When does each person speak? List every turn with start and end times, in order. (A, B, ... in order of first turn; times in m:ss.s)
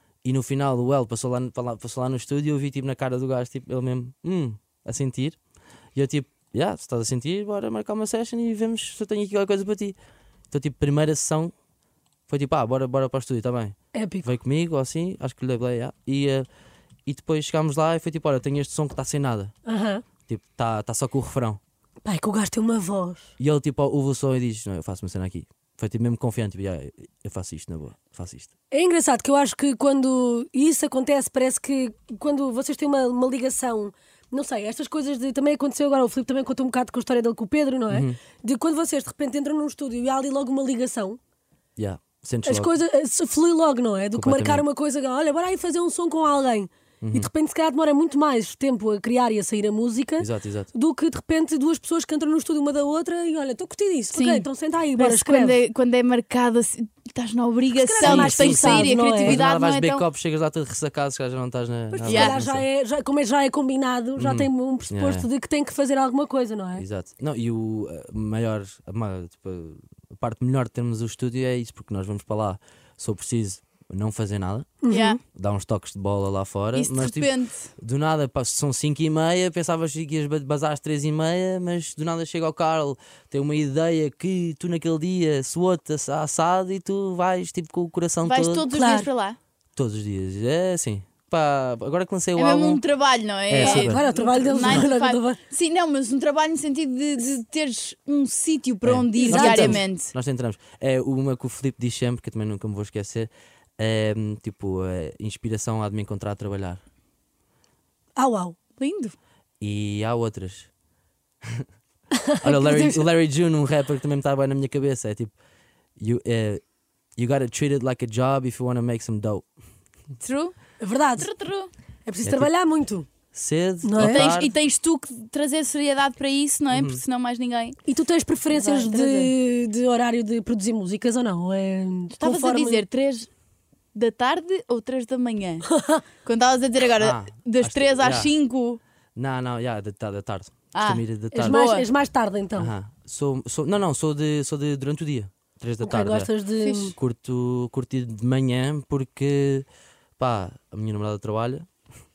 0:00.2-0:05.4 A
0:06.0-0:10.0 A
0:10.5-0:11.5 A
0:12.3-0:16.5 A
0:13.9-0:14.3 B
0:17.1-0:19.5 A
0:19.7-0:20.0 B
0:20.3-0:21.6 A
0:22.0-0:23.3 B
0:23.4-0:28.5 A
0:28.7-0:41.2 B
0:37.9-0:38.2 A
0:41.8-0:42.7 A
0:42.4-0:55.6 B
0:44.2-0:44.6 A
0:47.0-0:47.3 A
0:50.2-0:50.7 A
0:54.1-1:00.0 C
0:57.8-0:59.4 B
0:58.0-1:02.6 A
1:01.9-1:06.9 B
1:02.1-1:02.4 C
1:04.2-1:05.3 A
1:06.8-1:28.7 A
1:14.8-1:15.2 B
1:14.9-1:15.2 C
1:16.8-1:17.7 C
1:28.2-1:29.4 C
1:28.7-1:29.1 B
1:29.8-1:32.8 A
1:32.4-1:40.1 C
1:33.5-1:34.8 A
1:33.6-1:35.4 B
1:38.8-1:46.8 A
1:39.2-1:39.8 B
1:48.2-1:48.6 B
1:48.8-1:49.2 C
1:49.6-1:50.7 A
1:52.1-1:53.0 B
1:52.4-1:55.3 A
1:56.0-1:56.6 A
1:57.2-1:59.5 A
2:00.2-2:00.6 C
2:00.8-2:01.3 B
2:01.2-2:01.7 C
2:02.1-2:03.1 B
2:02.2-2:02.5 A
2:03.3-2:04.5 A
2:03.8-2:04.3 B
2:04.0-2:07.8 C
2:06.7-2:07.0 A
2:07.9-2:12.8 B
2:08.5-2:09.3 C
2:12.2-2:13.3 C
2:13.9-2:15.7 C
2:15.7-2:16.0 B
2:16.2-2:18.8 C
2:17.0-2:18.3 A
2:19.2-2:21.6 A
2:20.7-2:21.8 C
2:21.3-2:22.7 B
2:22.6-2:26.3 A
2:25.8-2:27.0 B
2:26.6-2:26.9 C
2:26.9-2:29.7 A
2:30.2-2:31.7 A